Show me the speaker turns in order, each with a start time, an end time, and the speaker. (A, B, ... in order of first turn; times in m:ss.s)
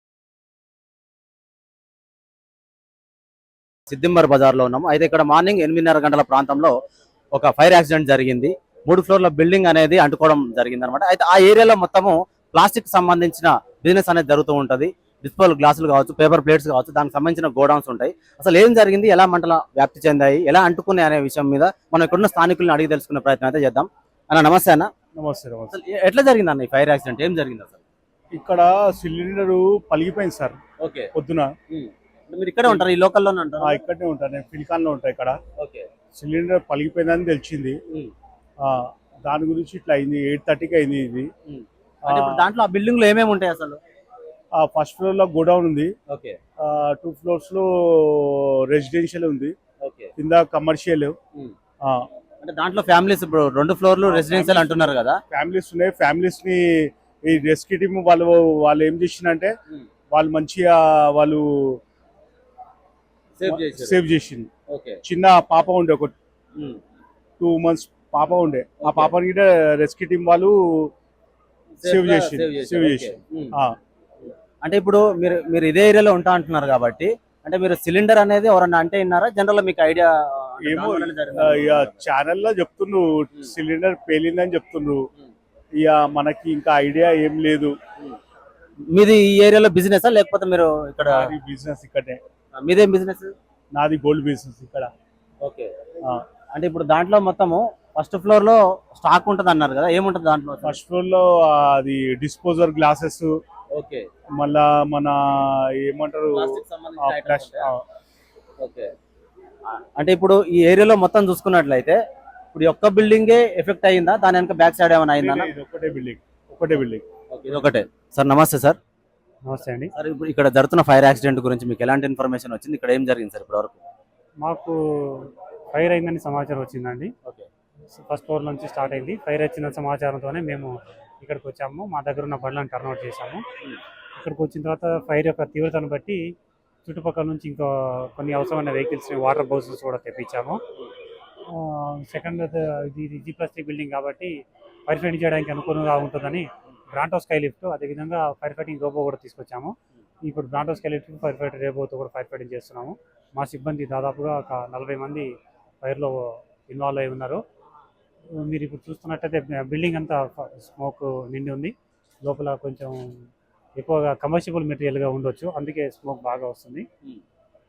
0:03.9-0:06.7 A
0:07.3-0:24.9 A
0:25.2-0:25.8 B
0:25.7-0:27.8 A
0:28.3-0:30.6 B
0:30.8-0:31.1 A
0:31.1-0:31.5 B
0:31.7-0:33.8 A
0:33.6-0:35.4 B
0:35.6-0:35.9 A
0:36.2-0:37.8 B
0:38.6-0:41.3 B
0:41.4-0:43.8 A
0:42.0-0:42.4 B
0:44.6-0:45.9 B
0:46.1-0:46.4 A
0:46.6-0:49.5 B
0:49.8-0:50.1 A
0:50.2-0:51.2 B
0:52.4-0:55.2 A
0:54.1-0:59.5 B
1:00.1-1:01.8 B
1:03.4-1:04.0 A
1:03.4-1:04.5 B
1:04.7-1:05.0 A
1:05.0-1:06.1 B
1:07.4-1:10.9 B
1:08.8-1:09.1 A
1:11.8-1:13.5 A
1:11.8-1:13.7 B
1:14.2-1:22.0 A
1:20.6-1:25.0 B
1:25.8-1:27.7 B
1:28.9-1:31.3 A
1:31.1-1:32.2 B
1:32.5-1:33.3 A
1:33.7-1:34.9 B
1:35.4-1:35.7 A
1:36.5-1:40.8 A
1:40.6-1:43.3 B
1:43.7-1:44.0 A
1:44.4-1:46.5 B
1:46.3-1:47.7 A
1:47.0-1:47.8 B
1:48.6-1:48.9 A
1:50.0-1:52.0 A
1:52.5-1:55.5 A
1:55.2-1:57.0 B
1:57.3-1:58.8 A
1:59.5-1:59.9 C
1:59.9-2:03.8 A
2:04.4-2:07.1 C
2:07.9-2:10.7 C
2:11.2-2:13.4 C
2:14.2-2:16.2 C
2:16.8-2:20.6 C
2:21.5-2:24.3 C
2:24.9-2:29.7 C
2:30.3-2:35.3 C
2:35.8-2:37.4 C
2:38.4-2:41.7 C
2:42.2-2:43.0 C
2:43.8-2:46.8 C